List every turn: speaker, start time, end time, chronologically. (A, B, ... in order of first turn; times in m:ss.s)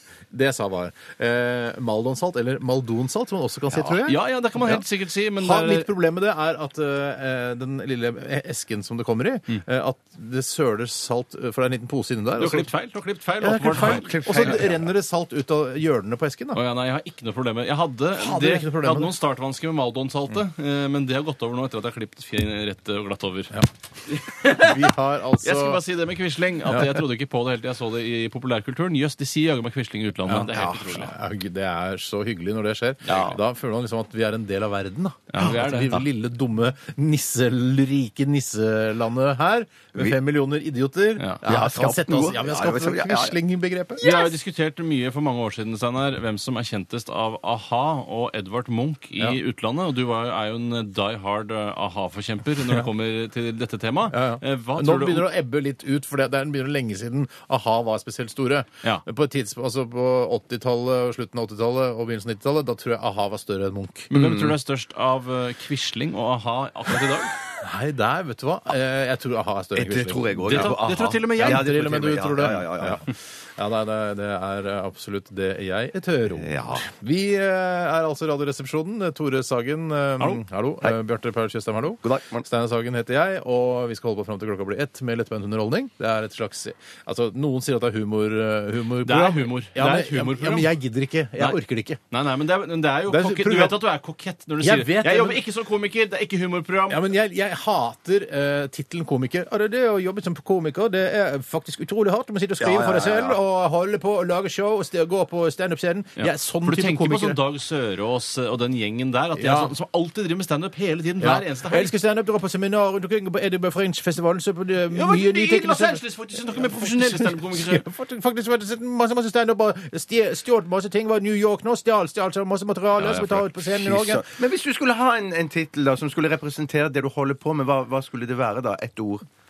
0:00.3-0:04.8 A
0:04.0-0:05.9 B
0:05.3-0:12.7 A
0:12.4-0:14.7 B
0:13.4-0:16.6 A
0:13.7-0:14.9 C
0:16.5-0:31.1 B
0:18.2-0:19.1 A
0:24.4-0:25.8 A
0:26.6-0:27.0 A
0:30.2-0:44.1 A
0:33.0-0:33.4 C
0:35.3-0:36.0 B
0:35.4-0:36.0 C
0:41.4-0:43.4 C
0:44.0-0:55.3 B
0:54.1-1:04.1 A
1:04.1-1:07.4 B
1:04.1-1:04.6 C
1:07.6-1:10.8 A
1:09.7-1:13.0 C
1:10.4-1:12.1 B
1:11.3-1:32.0 A
1:16.4-1:16.8 C
1:22.0-1:22.4 C
1:29.0-1:30.7 B
1:32.1-1:37.0 B
1:33.1-1:33.8 A
1:34.6-1:35.4 A
1:36.9-1:47.4 A
1:42.6-1:43.4 C
1:46.2-1:51.9 B
1:49.4-1:49.7 A
1:51.2-2:04.2 A
1:54.9-1:57.8 B
2:03.0-2:03.4 B
2:03.7-2:09.2 C